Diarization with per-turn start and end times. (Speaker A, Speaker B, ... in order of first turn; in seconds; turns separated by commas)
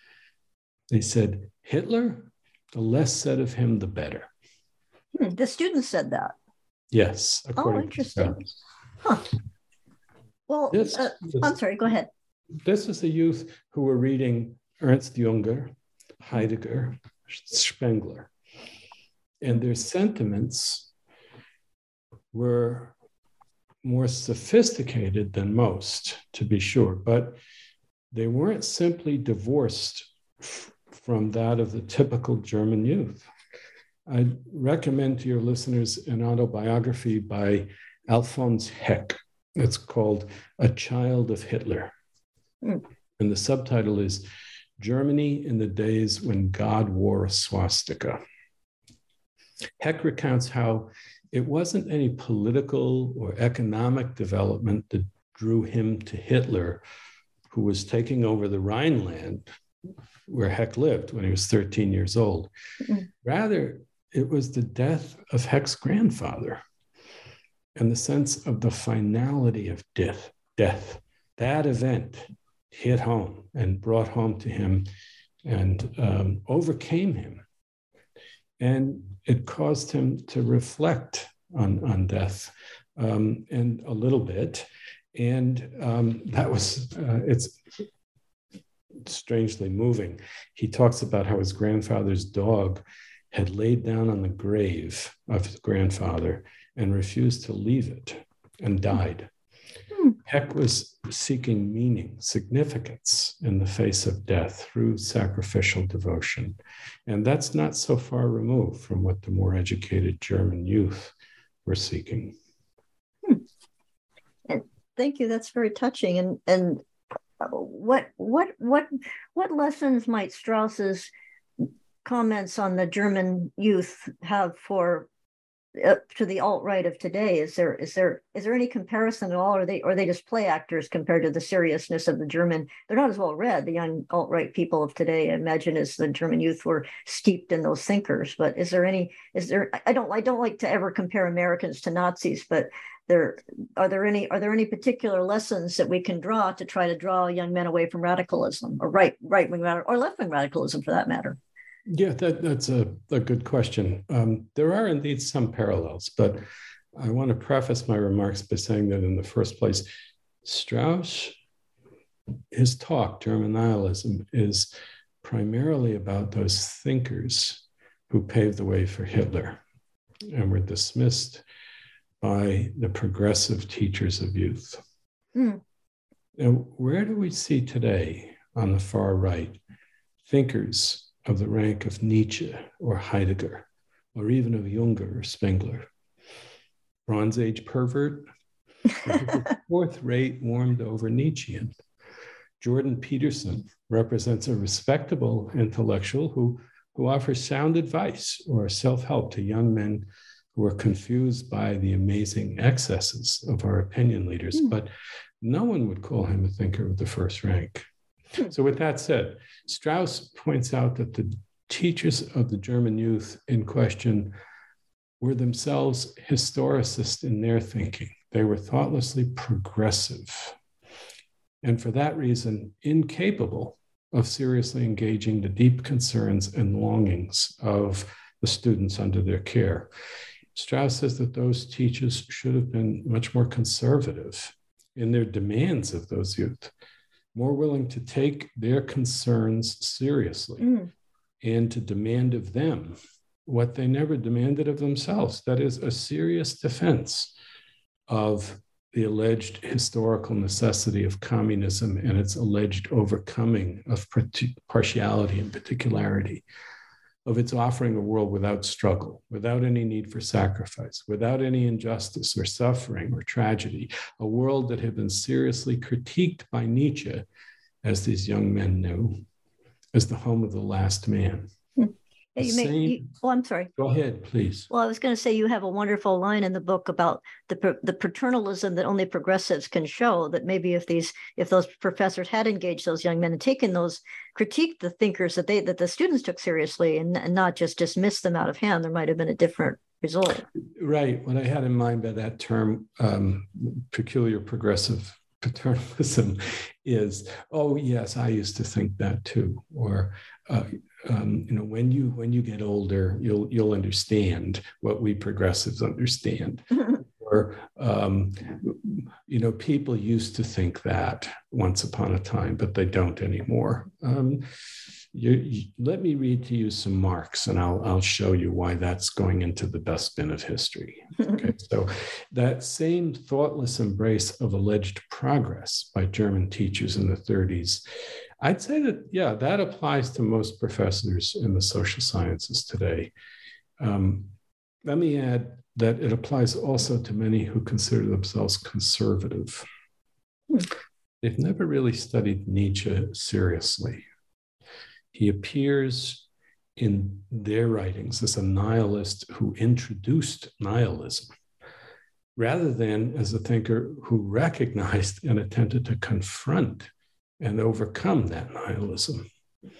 Speaker A: 0.9-4.3, Speaker B: 5.1-6.3, Speaker A: 6.9-8.5, Speaker B: 7.6-8.4, Speaker B: 10.5-12.1, Speaker A: 10.7-11.5, Speaker A: 12.6-18.3, Speaker A: 19.4-20.9, Speaker A: 22.3-22.9, Speaker A: 23.8-27.4, Speaker A: 28.1-33.3, Speaker A: 34.0-41.9, Speaker A: 43.2-44.2, Speaker A: 44.8-48.2, Speaker A: 49.8-56.8, Speaker A: 57.5-59.5, Speaker A: 60.3-62.5, Speaker A: 63.2-66.6, Speaker A: 67.7-74.9, Speaker A: 75.4-77.4, Speaker A: 78.6-87.6, Speaker A: 89.0-99.3, Speaker A: 100.2-111.1, Speaker A: 111.6-112.3, Speaker B: 114.5-116.8, Speaker B: 117.4-121.1, Speaker B: 122.0-125.1, Speaker B: 125.8-151.4, Speaker A: 151.9-156.4, Speaker A: 156.9-159.8, Speaker A: 160.4-161.3, Speaker A: 162.5-164.7, Speaker A: 165.2-169.6, Speaker A: 170.3-171.4, Speaker A: 172.2-174.8, Speaker B: 175.3-175.6, Speaker A: 176.4-179.6, Speaker A: 180.2-185.9, Speaker A: 187.1-188.3, Speaker A: 189.0-191.7, Speaker A: 192.6-204.9, Speaker A: 205.4-207.9, Speaker A: 208.4-214.3, Speaker A: 215.2-220.6, Speaker A: 221.6-229.9, Speaker A: 230.5-236.7, Speaker A: 237.3-240.7, Speaker B: 240.6-240.9, Speaker A: 241.4-247.3, Speaker A: 248.1-256.4, Speaker A: 257.2-267.2, Speaker A: 267.8-269.2, Speaker A: 269.9-271.5, Speaker B: 271.8-273.7, Speaker A: 272.4-273.1, Speaker A: 273.8-274.7, Speaker B: 274.7-290.4, Speaker A: 290.8-314.4, Speaker A: 315.1-327.8, Speaker A: 328.4-333.1, Speaker A: 333.8-334.3, Speaker A: 334.8-339.6, Speaker A: 341.2-344.0, Speaker A: 345.1-346.2, Speaker A: 346.8-351.3, Speaker A: 352.4-359.2